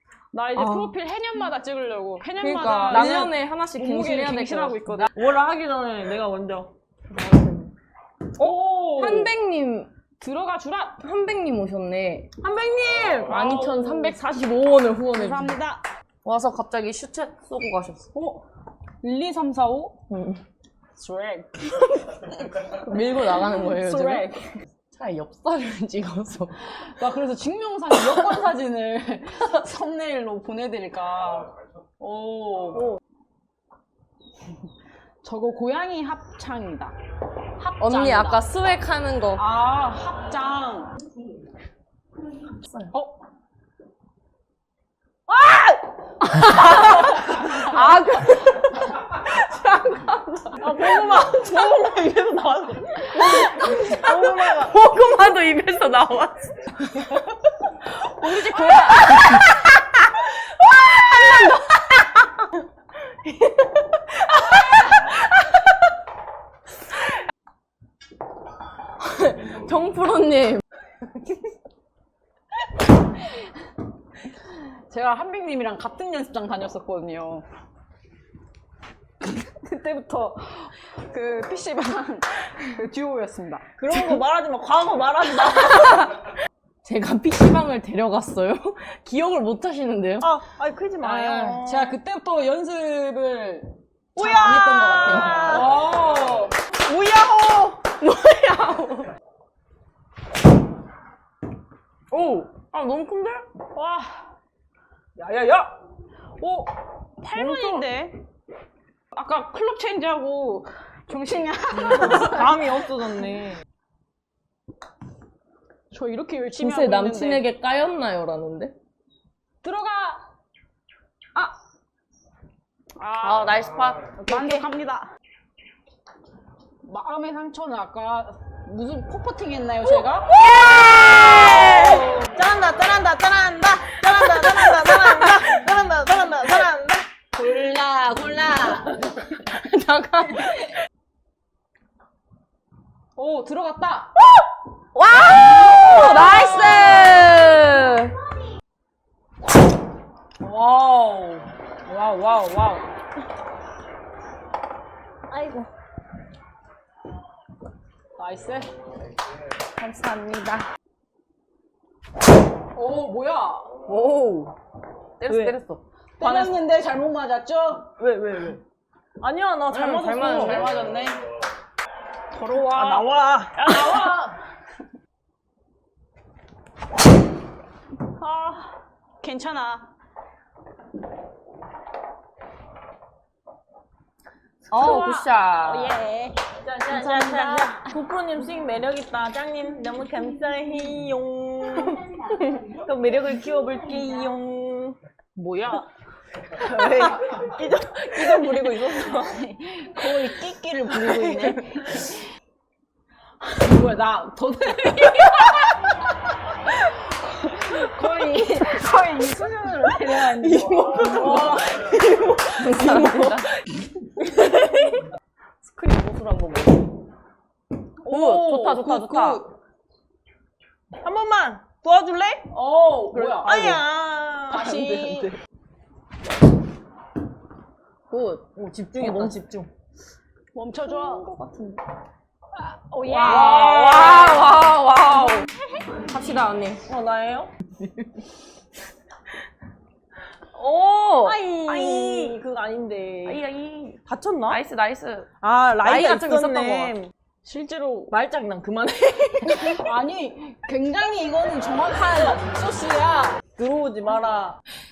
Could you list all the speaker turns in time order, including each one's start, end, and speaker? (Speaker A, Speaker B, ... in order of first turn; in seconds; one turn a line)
Speaker A: 0.3-5.1
Speaker B: 0.6-0.9
Speaker B: 2.4-5.0
Speaker C: 2.9-3.3
Speaker C: 5.1-6.7
Speaker B: 7.1-7.7
Speaker B: 8.4-9.9
Speaker A: 8.4-9.3
Speaker A: 10.2-11.0
Speaker B: 11.0-12.3
Speaker C: 12.4-13.3
Speaker B: 13.2-15.6
Speaker A: 13.3-14.3
Speaker A: 15.1-15.9
Speaker B: 16.2-18.1
Speaker A: 18.1-18.4
Speaker A: 19.0-20.0
Speaker B: 20.1-20.4
Speaker A: 21.0-21.9
Speaker B: 22.5-24.3
Speaker A: 23.5-24.6
Speaker B: 24.9-26.6
Speaker A: 26.6-32.9
Speaker A: 35.2-37.0
Speaker A: 37.6-38.5
Speaker B: 37.8-39.4
Speaker A: 39.4-40.9
Speaker B: 42.7-42.9
Speaker A: 42.9-43.2
Speaker C: 45.3-45.9
Speaker B: 46.2-51.2
Speaker C: 50.6-54.8
Speaker B: 53.2-56.7
Speaker A: 57.9-59.4
Speaker B: 58.2-62.5
Speaker B: 63.2-65.2
Speaker B: 69.0-70.6
Speaker A: 74.5-77.5
Speaker A: 79.2-83.7
Speaker C: 83.8-86.2
Speaker B: 85.6-86.3
Speaker B: 86.8-90.3
Speaker C: 90.2-91.9
Speaker A: 91.0-96.6
Speaker C: 94.2-96.0
Speaker B: 95.1-95.7
Speaker C: 96.7-97.8
Speaker B: 98.0-99.1
Speaker B: 102.1-103.5
Speaker A: 103.7-104.3
Speaker C: 105.2-105.7
Speaker A: 106.4-108.2
Speaker C: 107.3-107.9
Speaker A: 109.1-112.7
Speaker C: 111.9-113.6
Speaker A: 115.9-117.5
Speaker B: 116.6-118.7
Speaker A: 119.6-120.2
Speaker A: 123.0-123.6
Speaker B: 123.2-124.7
Speaker A: 124.2-125.1
Speaker A: 126.8-130.4
Speaker B: 130.3-132.1
Speaker C: 130.7-137.1
Speaker A: 131.7-132.2
Speaker B: 134.7-135.4
Speaker A: 137.3-139.1
Speaker B: 139.4-140.7
Speaker A: 143.2-144.1
Speaker B: 144.9-148.2
Speaker A: 150.4-151.5
Speaker C: 151.9-152.8
Speaker A: 158.2-158.7
Speaker B: 159.8-160.7
Speaker A: 162.7-163.7
Speaker B: 163.9-164.6
Speaker B: 165.2-165.8
Speaker C: 165.3-165.6
Speaker A: 166.2-167.9
Speaker C: 166.2-166.6
Speaker C: 168.0-168.6
Speaker C: 169.2-170.6
Speaker B: 169.7-170.7
Speaker A: 170.2-171.2
Speaker A: 172.3-174.4
Speaker C: 172.8-174.2
Speaker A: 178.1-179.9
Speaker B: 184.7-186.0
Speaker A: 184.7-187.9
Speaker C: 186.6-195.0
Speaker A: 195.3-195.9
Speaker C: 196.6-199.4
Speaker A: 199.1-202.2
Speaker C: 200.9-201.8
Speaker A: 203.4-206.0
Speaker A: 206.7-211.8
Speaker B: 210.3-213.5
Speaker B: 215.6-216.9
Speaker A: 218.0-219.5
Speaker B: 218.1-219.4
Speaker C: 221.0-222.5
Speaker A: 222.5-223.8
Speaker B: 223.1-223.7
Speaker C: 223.4-225.3
Speaker A: 224.5-225.3
Speaker B: 228.1-229.3
Speaker C: 228.6-229.7
Speaker A: 230.6-231.3
Speaker B: 230.8-231.8
Speaker A: 232.5-234.4
Speaker B: 233.1-235.5
Speaker C: 233.1-234.5
Speaker B: 236.1-236.8
Speaker C: 236.9-237.5
Speaker B: 240.5-242.4
Speaker C: 241.2-243.4
Speaker B: 243.2-245.3
Speaker C: 244.1-244.6
Speaker C: 245.4-247.1
Speaker B: 245.8-246.9
Speaker A: 247.4-248.1
Speaker C: 248.1-249.8
Speaker A: 249.4-253.4
Speaker C: 253.6-254.6